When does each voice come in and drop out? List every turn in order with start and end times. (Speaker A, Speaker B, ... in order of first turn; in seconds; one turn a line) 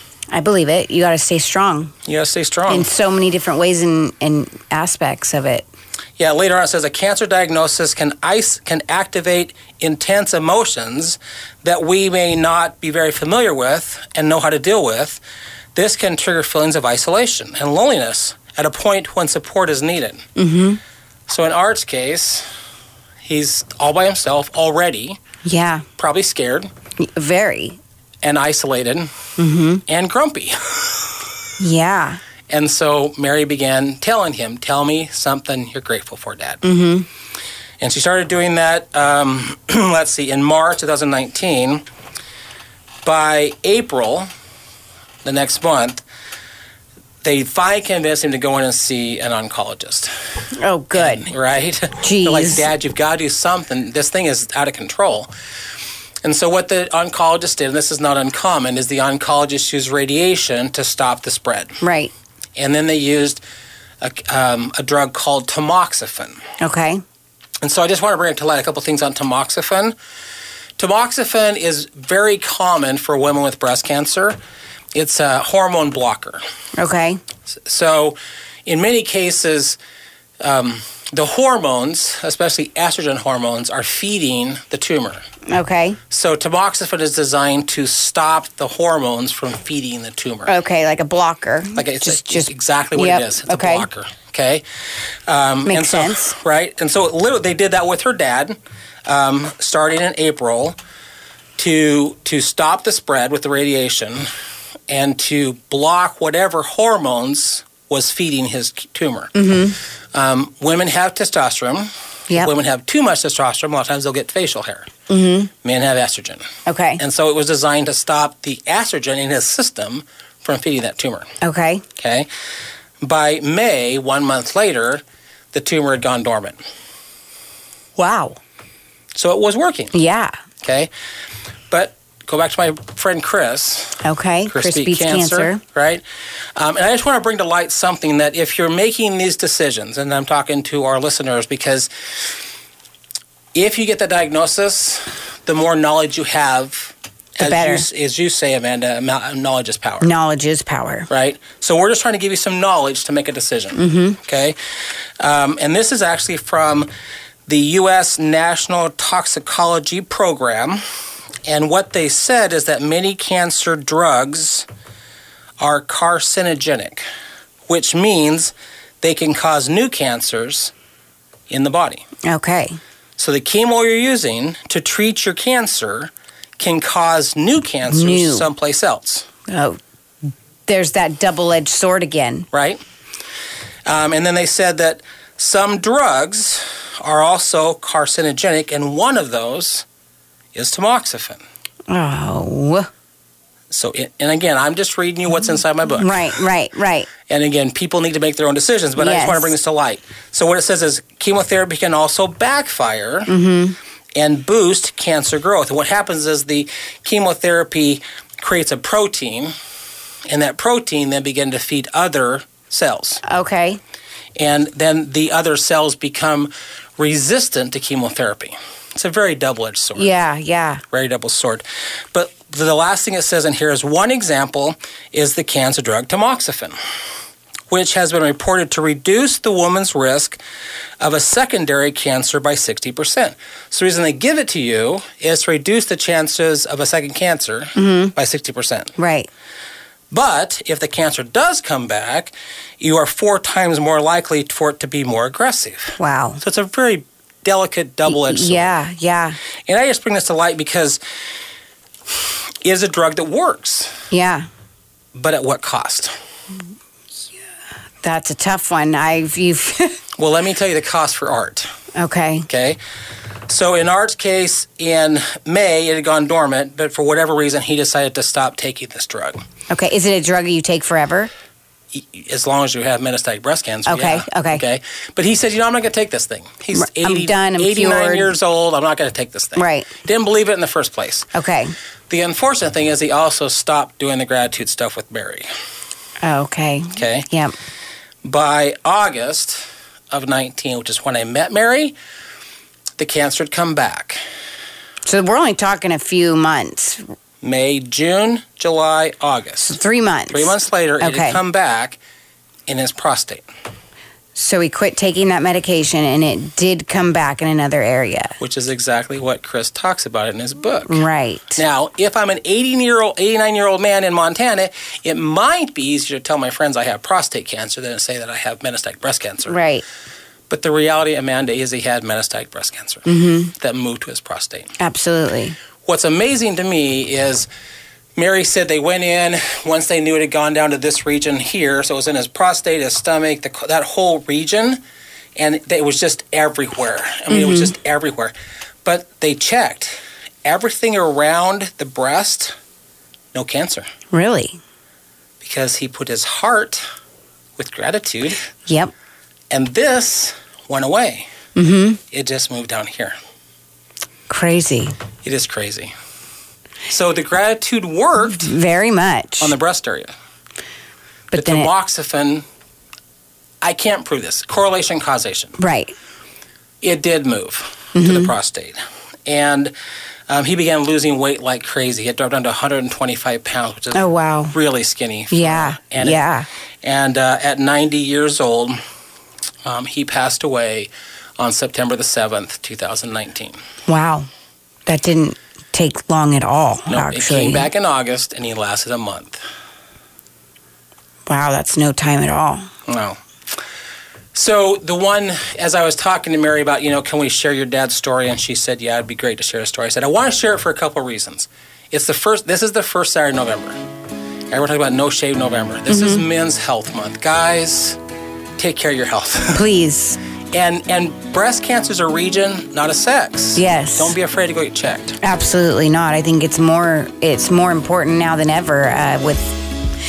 Speaker A: 0.3-1.9
Speaker B: 2.0-2.9
Speaker A: 2.7-5.7
Speaker B: 6.2-15.2
Speaker B: 15.7-20.2
Speaker A: 20.4-20.8
Speaker B: 21.3-22.4
Speaker B: 23.2-25.2
Speaker A: 25.4-25.9
Speaker B: 26.0-26.7
Speaker A: 27.0-27.8
Speaker B: 28.2-29.1
Speaker A: 29.4-29.8
Speaker B: 29.9-31.2
Speaker A: 31.6-32.2
Speaker B: 32.5-36.6
Speaker A: 36.6-37.1
Speaker B: 37.8-41.8
Speaker B: 43.0-44.3
Speaker B: 45.2-46.0
Speaker B: 47.2-50.1
Speaker A: 50.5-51.3
Speaker B: 50.9-55.3
Speaker A: 52.0-52.6
Speaker B: 56.2-61.8
Speaker A: 61.8-62.1
Speaker B: 62.5-63.4
Speaker B: 64.0-66.4
Speaker A: 66.6-67.0
Speaker B: 67.6-69.9
Speaker B: 70.8-74.4
Speaker B: 74.9-76.4
Speaker A: 76.8-77.2
Speaker B: 77.5-79.8
Speaker B: 80.4-85.2
Speaker A: 85.5-86.0
Speaker B: 86.1-90.5
Speaker A: 90.5-93.9
Speaker B: 91.8-94.6
Speaker B: 95.2-100.8
Speaker A: 95.7-96.3
Speaker B: 101.6-104.3
Speaker B: 104.9-109.3
Speaker A: 109.3-109.8
Speaker B: 110.1-114.9
Speaker A: 115.1-115.5
Speaker B: 115.6-116.4
Speaker A: 116.7-117.0
Speaker B: 117.0-121.3
Speaker A: 121.4-121.8
Speaker B: 122.0-122.3
Speaker B: 123.0-126.6
Speaker A: 128.0-128.4
Speaker B: 129.1-129.9
Speaker A: 129.9-130.3
Speaker B: 130.6-130.9
Speaker B: 131.7-136.0
Speaker A: 134.0-135.6
Speaker B: 136.6-141.9
Speaker B: 143.5-150.1
Speaker A: 147.4-147.8
Speaker A: 150.0-151.1
Speaker B: 151.1-154.6
Speaker A: 153.8-154.2
Speaker B: 155.2-156.9
Speaker B: 157.5-160.8
Speaker B: 161.4-164.7
Speaker B: 165.6-167.0
Speaker B: 167.7-170.7
Speaker B: 171.5-172.0
Speaker A: 172.2-172.8
Speaker B: 173.2-179.3
Speaker A: 177.9-178.5
Speaker A: 179.5-179.8
Speaker A: 180.7-182.5
Speaker B: 182.5-182.8
Speaker B: 183.8-189.8
Speaker B: 190.5-191.4
Speaker A: 191.9-192.9
Speaker B: 193.7-196.3
Speaker A: 196.0-197.1
Speaker B: 197.3-203.3
Speaker A: 199.0-199.5
Speaker A: 203.3-203.8
Speaker B: 204.2-209.5
Speaker B: 210.3-213.2
Speaker A: 213.2-213.8
Speaker B: 214.3-220.1
Speaker A: 219.9-220.8
Speaker B: 220.9-226.8
Speaker B: 227.7-230.4
Speaker B: 231.0-238.9
Speaker A: 237.8-238.1
Speaker A: 239.0-239.3
Speaker B: 240.1-248.8
Speaker A: 246.0-246.4
Speaker A: 248.1-249.4
Speaker B: 249.7-251.0
Speaker B: 252.1-253.9
Speaker A: 254.1-254.5
Speaker B: 255.1-256.1
Speaker A: 258.0-260.0
Speaker B: 260.2-261.7
Speaker A: 261.9-262.5
Speaker B: 262.5-262.8
Speaker B: 263.5-269.4
Speaker A: 269.7-271.3
Speaker B: 271.9-281.3
Speaker A: 273.9-274.6
Speaker A: 276.7-278.3
Speaker A: 279.6-279.9
Speaker A: 281.3-281.7
Speaker B: 282.1-285.5
Speaker A: 286.2-287.5
Speaker B: 286.9-287.3
Speaker B: 288.2-291.9
Speaker B: 293.0-294.2
Speaker A: 295.1-297.1
Speaker B: 297.4-299.8
Speaker A: 299.6-301.4
Speaker B: 300.3-302.0
Speaker B: 302.7-303.4
Speaker A: 304.3-308.4
Speaker B: 308.4-311.0
Speaker A: 310.9-311.6
Speaker B: 311.6-319.6
Speaker A: 319.5-319.8
Speaker B: 320.5-324.7
Speaker A: 323.1-323.5
Speaker A: 324.8-325.6
Speaker B: 325.8-327.5
Speaker B: 328.1-334.8
Speaker B: 335.4-342.6
Speaker A: 337.3-337.7
Speaker B: 343.3-343.9
Speaker A: 344.1-344.6
Speaker B: 345.4-346.8
Speaker B: 347.6-348.5
Speaker A: 348.7-348.9
Speaker B: 349.5-351.3
Speaker A: 351.5-352.0
Speaker B: 352.1-353.1
Speaker A: 354.3-354.9
Speaker B: 355.2-355.9
Speaker B: 356.9-358.5
Speaker A: 358.3-359.5
Speaker B: 359.4-360.1
Speaker A: 361.3-361.7
Speaker B: 361.3-362.4
Speaker B: 363.6-365.6
Speaker A: 365.6-365.9
Speaker B: 366.8-369.7
Speaker A: 367.9-368.3
Speaker B: 370.3-376.2
Speaker A: 373.9-374.5
Speaker A: 375.3-376.5
Speaker B: 376.8-378.8
Speaker B: 379.6-383.6
Speaker A: 383.9-384.3
Speaker A: 384.9-387.7
Speaker B: 386.9-389.4
Speaker A: 391.3-392.7
Speaker B: 392.9-393.6
Speaker B: 394.3-403.8
Speaker B: 404.5-408.0
Speaker A: 405.9-406.2
Speaker B: 408.6-409.6
Speaker A: 409.5-410.2
Speaker B: 410.5-415.2
Speaker A: 413.6-414.1
Speaker A: 415.2-419.6